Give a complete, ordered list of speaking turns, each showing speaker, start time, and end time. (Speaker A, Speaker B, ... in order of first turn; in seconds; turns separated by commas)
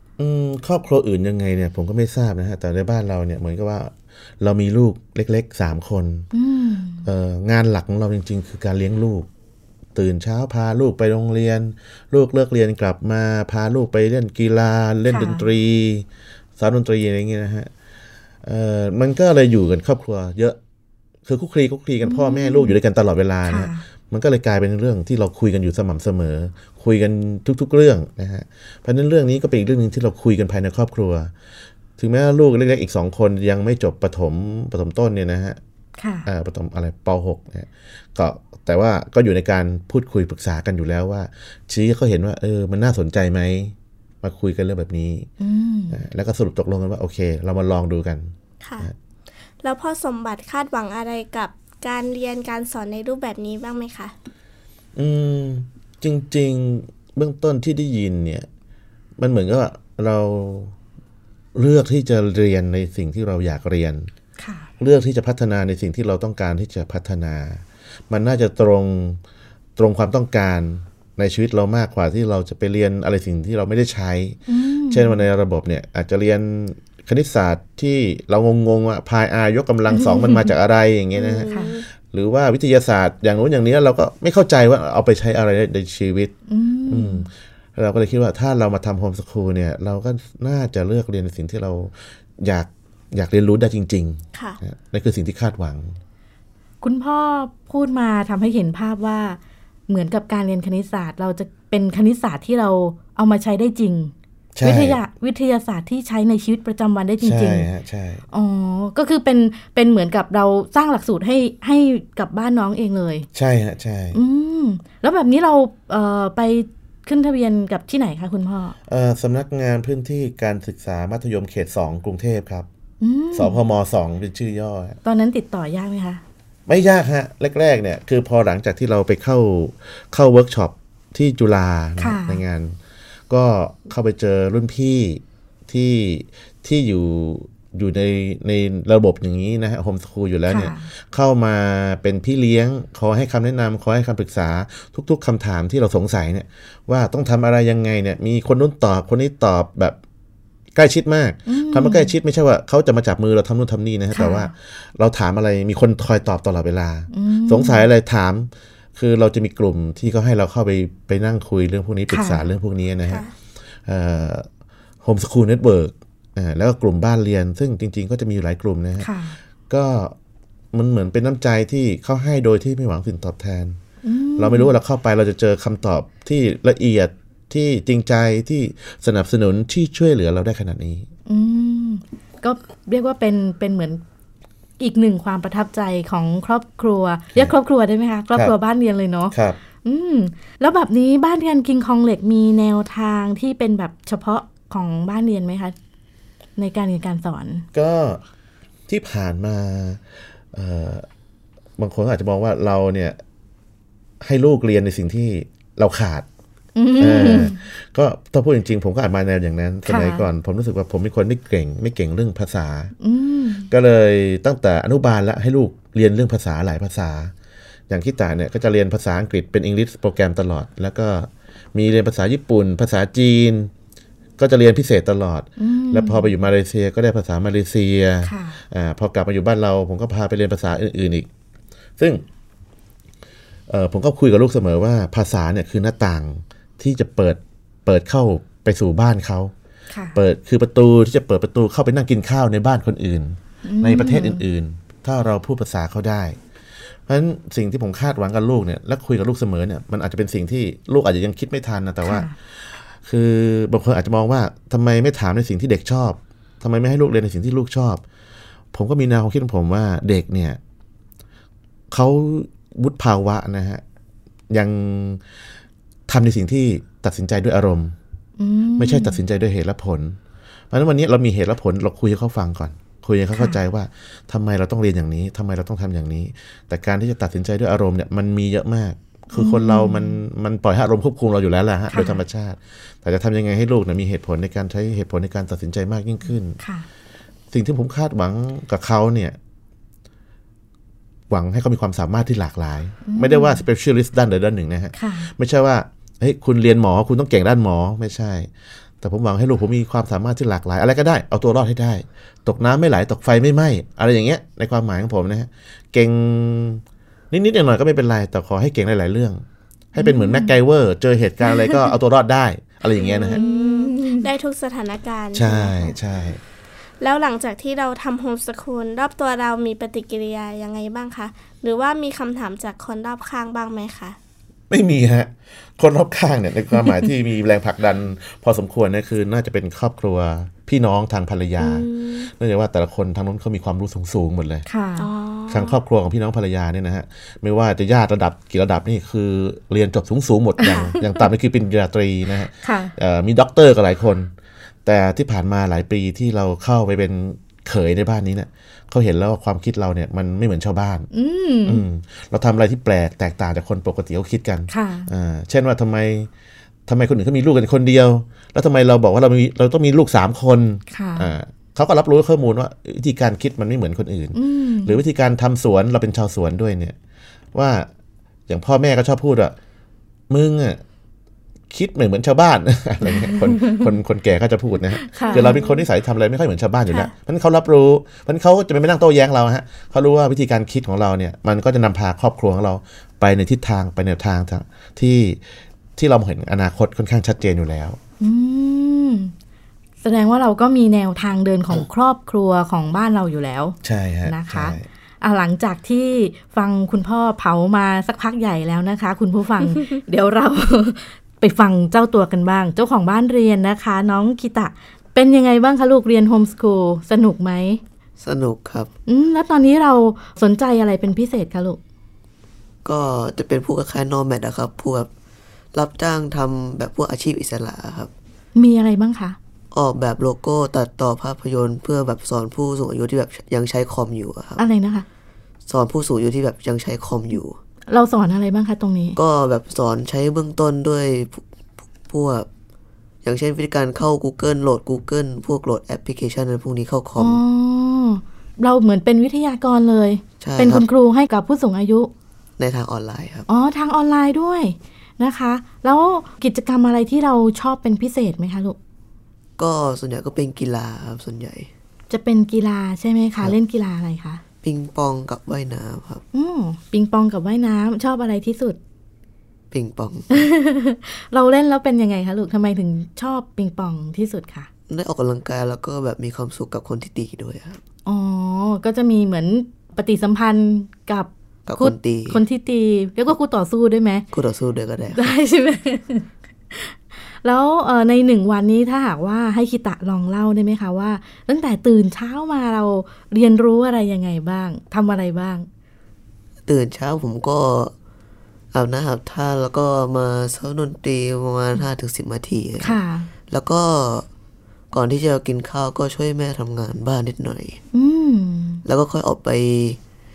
Speaker A: 0.2-6.3, Speaker B: 6.3-7.1, Speaker A: 7.0-9.3, Speaker A: 9.9-17.7, Speaker B: 15.1-15.5, Speaker A: 18.4-20.6, Speaker A: 21.2-31.3, Speaker B: 22.0-22.8, Speaker B: 23.4-23.8, Speaker A: 32.0-35.6, Speaker B: 36.0-36.3, Speaker A: 36.2-45.3, Speaker B: 45.4-46.0, Speaker A: 45.9-48.9, Speaker C: 48.6-48.9, Speaker C: 49.6-54.1, Speaker A: 55.0-58.5, Speaker A: 59.2-60.7, Speaker A: 61.5-64.1, Speaker B: 64.4-64.7, Speaker A: 64.8-69.2, Speaker A: 69.8-86.3, Speaker B: 74.5-75.2, Speaker B: 79.9-80.5, Speaker C: 81.2-81.8, Speaker B: 81.5-81.7, Speaker B: 86.5-87.2, Speaker A: 86.9-96.0, Speaker C: 94.3-94.6, Speaker B: 96.8-107.7, Speaker A: 104.5-105.0, Speaker A: 107.2-108.2, Speaker B: 108.3-113.3, Speaker A: 113.3-114.2, Speaker B: 114.1-118.8, Speaker A: 118.9-122.7, Speaker B: 123.0-123.6, Speaker A: 123.3-125.0, Speaker B: 125.0-126.2, Speaker A: 126.7-132.8, Speaker B: 132.0-132.4, Speaker A: 133.3-150.0, Speaker B: 140.5-140.9, Speaker A: 150.7-163.2, Speaker B: 151.5-152.1, Speaker B: 154.1-154.5, Speaker B: 157.1-157.9, Speaker B: 162.1-162.5, Speaker C: 163.1-163.3, Speaker A: 163.8-164.5, Speaker A: 165.0-169.1, Speaker B: 169.0-169.4, Speaker A: 169.7-170.1, Speaker A: 170.7-173.8, Speaker B: 174.0-174.7, Speaker A: 174.4-181.1, Speaker B: 181.3-184.0, Speaker B: 184.8-195.7, Speaker A: 189.3-189.6, Speaker B: 196.6-197.7, Speaker A: 197.7-198.2, Speaker A: 198.9-201.1, Speaker A: 201.8-203.2, Speaker A: 204.2-206.2, Speaker B: 206.8-207.6, Speaker A: 207.0-212.9, Speaker B: 209.9-210.3, Speaker B: 213.0-213.7, Speaker A: 213.7-217.3, Speaker A: 217.9-223.7, Speaker A: 224.4-231.3, Speaker B: 225.6-226.3, Speaker B: 228.2-228.6, Speaker A: 232.0-232.2, Speaker A: 233.7-239.5, Speaker B: 239.9-240.2, Speaker A: 240.1-246.4, Speaker B: 243.6-244.4, Speaker A: 247.1-258.0, Speaker B: 252.0-252.3, Speaker A: 258.7-260.6, Speaker A: 261.9-263.8, Speaker A: 264.5-265.2, Speaker A: 266.1-267.9, Speaker B: 268.4-269.2, Speaker A: 268.8-270.2, Speaker A: 270.7-286.6, Speaker B: 279.3-280.2, Speaker B: 281.9-282.2, Speaker B: 286.6-286.9, Speaker A: 287.5-289.4, Speaker A: 291.3-298.5, Speaker B: 293.0-293.6, Speaker B: 294.9-295.3, Speaker A: 299.0-309.4, Speaker A: 309.9-313.4, Speaker B: 310.0-310.5, Speaker B: 311.5-311.8, Speaker C: 312.9-315.9, Speaker B: 313.3-314.3, Speaker A: 315.3-316.4, Speaker C: 317.0-324.1, Speaker A: 324.7-334.6, Speaker C: 331.6-332.3, Speaker B: 334.7-335.1, Speaker C: 335.0-335.8, Speaker A: 335.5-344.3, Speaker B: 340.6-341.0, Speaker B: 342.6-342.9, Speaker A: 344.8-351.1, Speaker B: 351.1-351.8, Speaker A: 351.6-356.3, Speaker B: 354.7-355.1, Speaker A: 356.9-366.9, Speaker B: 360.9-361.3, Speaker B: 364.3-365.0, Speaker A: 367.5-367.9, Speaker A: 368.5-369.6, Speaker A: 370.3-370.8, Speaker A: 371.7-385.4, Speaker B: 373.3-373.8, Speaker B: 375.0-375.6, Speaker C: 375.2-375.8, Speaker A: 385.9-388.0, Speaker B: 388.2-389.3, Speaker B: 390.0-407.8, Speaker A: 393.8-394.9, Speaker D: 408.2-408.9, Speaker B: 409.1-411.8, Speaker D: 412.8-415.1, Speaker D: 415.7-418.1, Speaker B: 418.5-419.4, Speaker D: 419.7-424.6, Speaker B: 424.6-425.1, Speaker D: 425.7-427.6, Speaker B: 427.9-429.2, Speaker D: 429.1-431.4, Speaker D: 432.1-432.5, Speaker D: 433.2-437.4, Speaker B: 437.2-442.1, Speaker D: 440.4-440.9, Speaker D: 442.6-443.5, Speaker B: 443.5-448.8, Speaker D: 449.6-451.7, Speaker B: 452.1-454.4, Speaker D: 454.6-456.2, Speaker B: 456.3-458.8, Speaker D: 459.7-460.4, Speaker B: 460.3-464.7, Speaker D: 464.9-467.8, Speaker B: 468.1-474.2, Speaker D: 471.7-472.4, Speaker D: 474.3-475.4, Speaker B: 475.1-485.7, Speaker D: 486.6-487.9, Speaker D: 488.7-493.0, Speaker B: 492.8-493.3, Speaker D: 493.5-494.3, Speaker D: 494.9-497.8, Speaker B: 497.9-498.8, Speaker D: 498.8-500.0